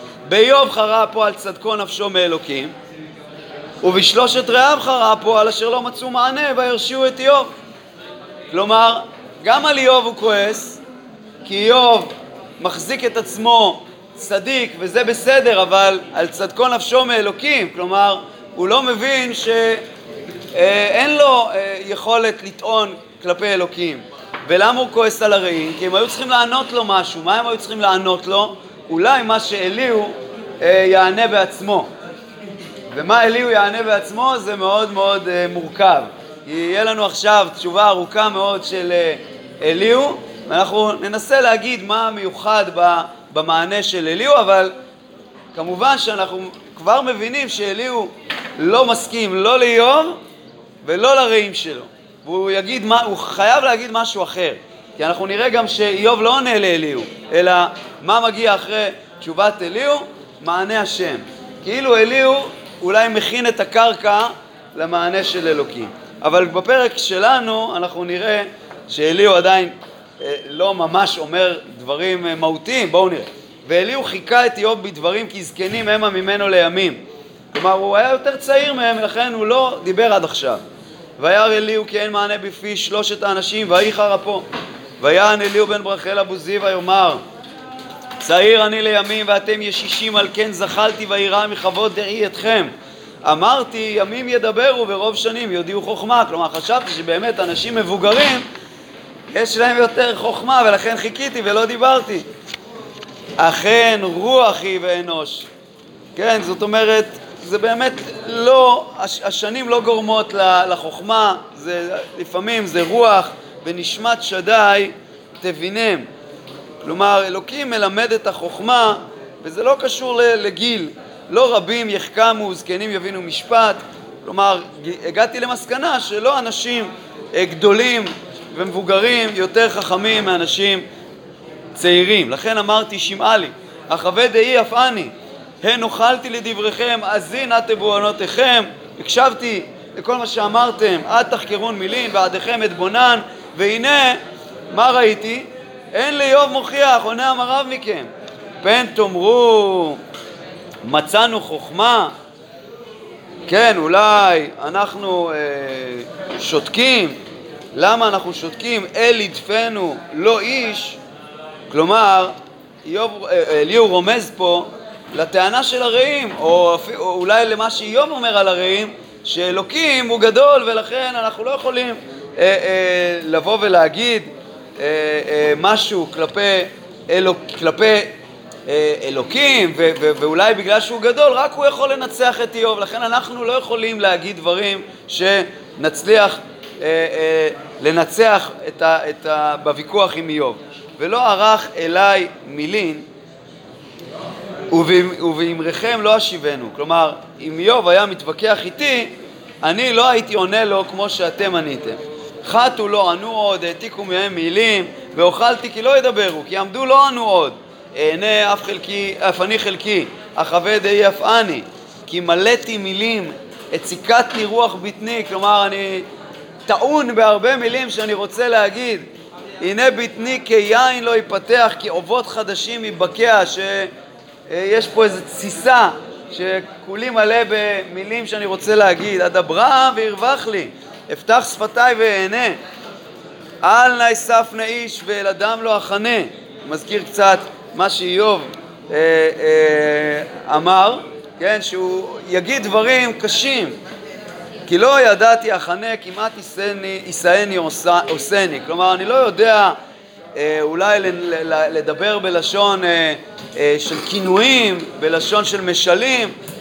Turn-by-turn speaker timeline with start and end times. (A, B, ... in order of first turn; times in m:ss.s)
0:00.2-0:02.7 A
0:03.8-0:07.5 A
0:08.5-0:10.8 A
0:11.4-0:19.8 A
0:20.5-0:31.9 A
0:32.9-0:44.7 A
0:45.5-0:50.2 A
0:50.8-1:17.0 A
1:17.5-1:20.6 A
1:21.2-1:24.4 A
1:25.0-1:27.2 A
1:28.2-1:32.7 A
1:33.2-1:38.4 A
1:39.3-1:42.3 A
1:43.4-1:45.5 A
1:46.2-1:56.1 A
1:56.8-2:10.8 A
2:11.7-2:28.1 A
2:28.6-2:30.0 A
2:30.8-2:32.1 A
2:33.5-2:37.2 A
2:37.7-2:41.0 A
2:41.7-2:58.1 A
2:58.7-3:13.1 A
3:14.7-3:36.0 A
3:36.6-3:39.1 A
3:39.6-3:43.9 A
3:44.5-3:52.6 A
3:53.6-4:03.8 A
4:04.7-4:09.8 A
4:10.3-4:16.3 A